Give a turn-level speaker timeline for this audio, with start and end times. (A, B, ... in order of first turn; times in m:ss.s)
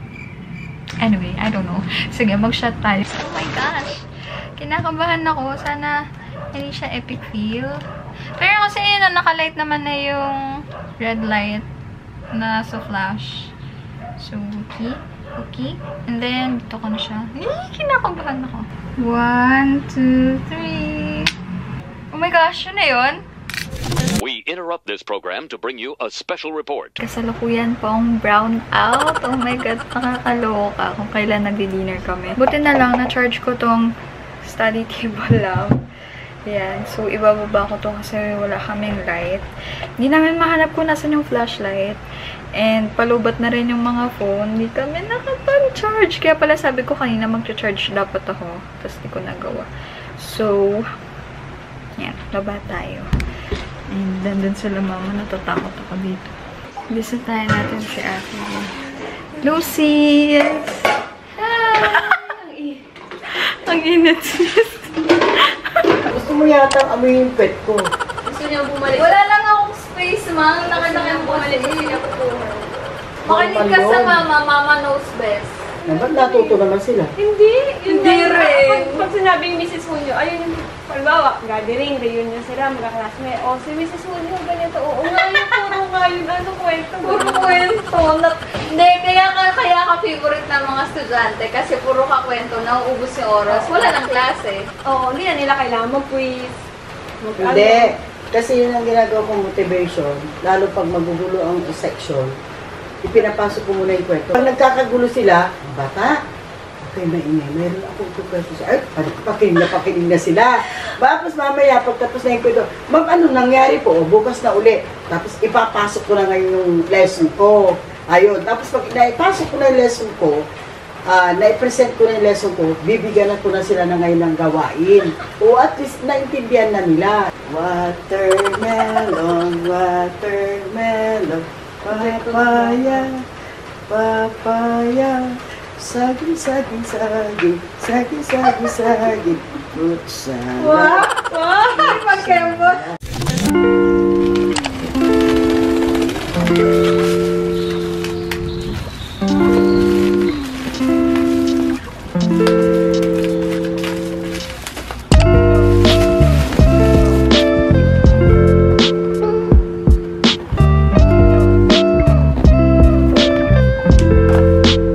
0:01.0-0:04.1 A
0:04.6-0:06.0 A
0:06.5-0:07.8 A
0:08.4-0:11.7 A
0:12.3-0:13.5 A
0:14.2-0:21.3 A
0:22.1-0:23.2 A
0:24.2-0:26.9 B
0:27.0-0:33.9 A
0:34.4-0:35.8 A
0:36.5-0:39.5 A
0:40.0-0:42.0 A
0:42.6-0:50.9 A
0:52.0-0:53.1 A
0:53.9-0:56.3 A
0:56.9-0:58.7 A
0:59.4-1:06.0 A
1:06.1-1:07.9 C
1:08.3-1:09.0 D
1:08.8-1:12.6 A
1:10.7-1:12.0 D
1:13.3-1:14.2 C
1:13.3-1:15.7 A
1:15.8-1:16.6 D
1:15.9-1:17.1 C
1:17.2-1:27.6 D
1:17.8-1:19.1 A
1:27.0-1:34.7 A
1:33.5-1:34.0 D
1:34.8-1:36.5 D
1:37.2-1:37.9 D
1:37.4-1:42.3 C
1:43.0-1:46.2 C
1:46.8-2:00.4 C
2:01.1-2:13.2 C
2:13.9-2:21.0 C
2:20.6-2:22.8 A